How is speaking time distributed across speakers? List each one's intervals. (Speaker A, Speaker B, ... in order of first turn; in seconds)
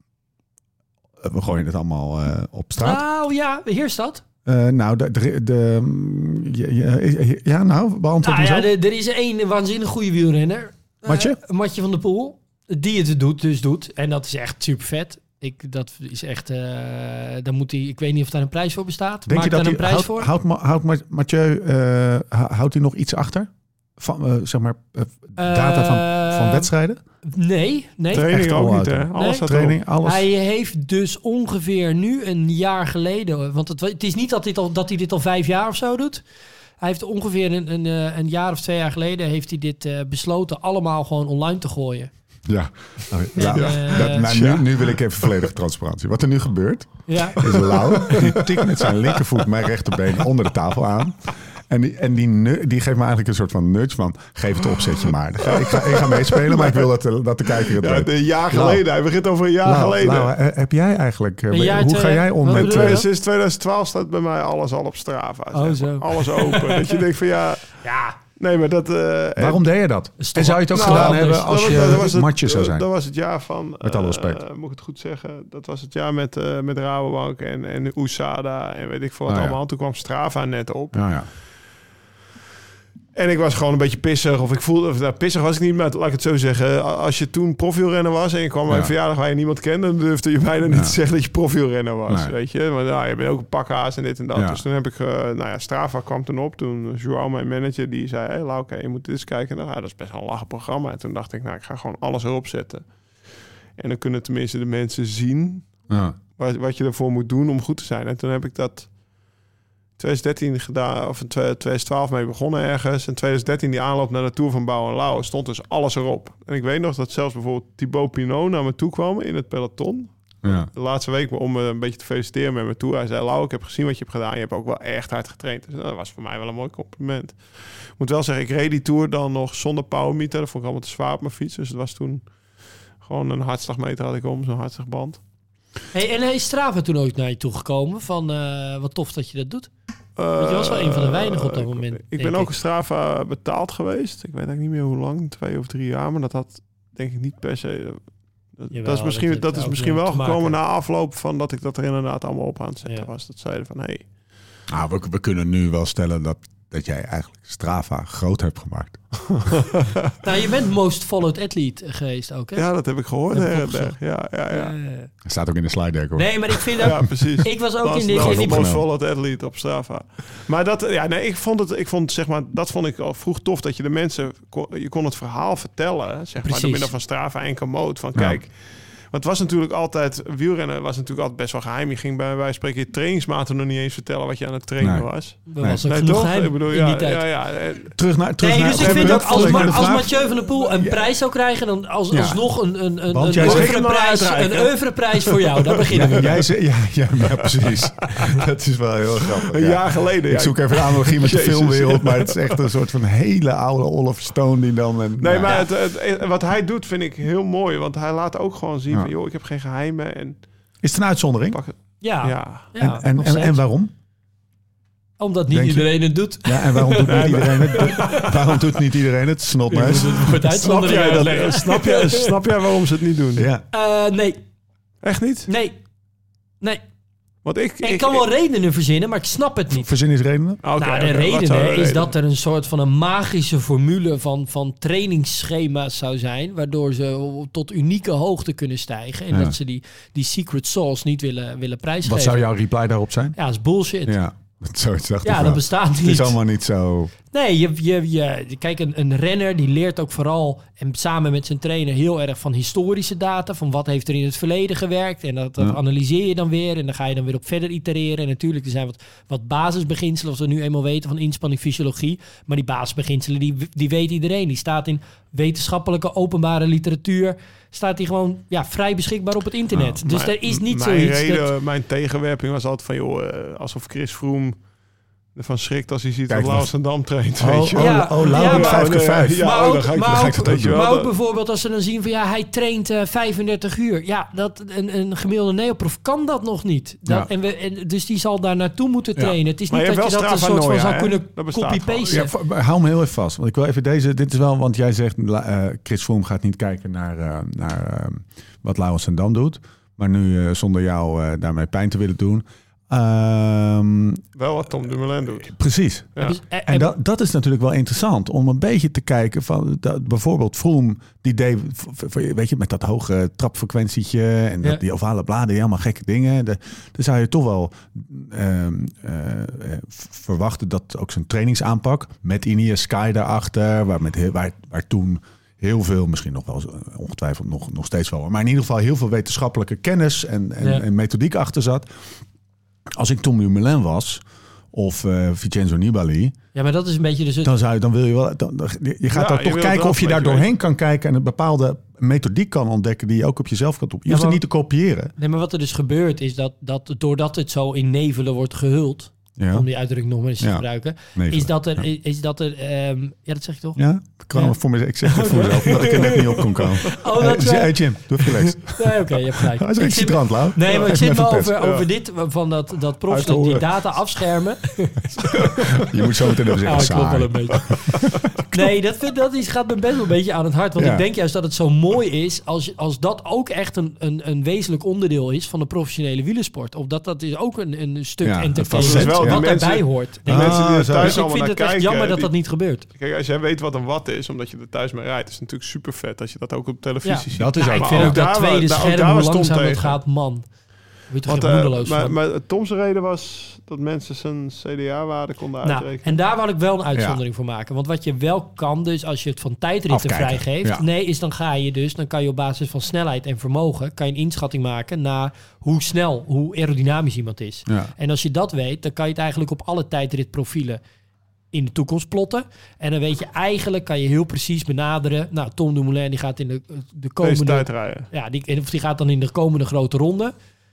Speaker A: 1.2-3.0, 4.4-8.7, 11.0-11.4, 19.3-27.0, 28.2-30.2, 42.5-58.8, 59.6-63.0, 69.4-72.9, 73.8-74.4, 79.3-79.6, 80.9-81.3, 90.7-91.0, 92.1-92.3, 94.3-94.6, 105.9-106.2, 120.4-120.7, 154.7-159.5, 165.2-167.4, 168.1-168.8, 184.8-185.1, 187.9-190.1, 190.8-191.1, 192.1-192.4, 193.1-193.8, 195.9-205.6, 210.8-211.6, 212.8-213.9, 215.5-221.3, 223.4-223.7, 229.7-230.6, 242.0-243.4, 244.1-247.1, 276.3-276.7, 277.4-280.8, 292.1-304.2, 305.4-332.1, 332.9-336.4, 337.4-345.1, 349.4-349.7, 350.4-351.9, 353.8-361.6, 365.8-367.8, 368.3-368.6, 370.8-371.1, 378.2-381.2, 387.4-388.2, 396.9-397.2, 399.9-400.9, 407.7-407.9
Speaker B: 2.8-4.2, 8.2-20.3, 25.4-26.7, 27.2-28.4, 29.1-29.4, 30.0-36.2, 36.8-42.1, 43.4-44.3, 47.0-48.1, 61.5-63.1, 65.5-66.9, 67.8-68.2, 70.2-72.0, 135.9-139.7, 140.4-142.5, 148.7-150.6, 160.2-162.7, 163.3-164.0, 164.5-165.1, 166.2-168.7, 176.4-176.9, 185.5-187.2, 188.4-196.4, 205.4-205.7, 212.0-213.6, 215.2-218.3, 219.7-222.3, 223.7-224.4, 225.4-225.9, 227.8-229.9, 230.8-242.5, 243.4-244.2, 245.2-246.4, 247.3-271.5, 277.8-292.3, 306.2-306.9, 330.6-330.9, 336.5-337.5, 344.1-344.4, 345.1-353.8, 354.3-365.8, 366.6-367.9, 368.5-382.9, 387.0-392.1, 395.6-410.8, 411.5-420.3
Speaker C: 28.1-29.8, 43.4-45.4, 47.4-49.4, 55.4-56.9, 57.6-60.3, 62.5-69.6, 70.7-81.2, 83.1-105.9, 106.4-108.9, 110.0-135.2, 140.2-154.1, 159.4-159.8, 162.5-164.7, 166.8-188.0, 188.7-190.1, 193.4-196.2, 197.4-197.8, 199.5-202.7, 205.2-210.4, 211.5-212.7, 217.1-218.4, 220.0-223.5, 225.0-225.5, 227.4-228.2, 230.6-232.1, 270.0-274.6, 275.3-281.1, 289.7-292.1, 304.4-305.5, 339.1-340.5, 355.8-356.1, 361.6-361.9, 363.1-363.6, 367.7-368.3, 378.7-390.0, 391.2-396.2, 417.2-418.1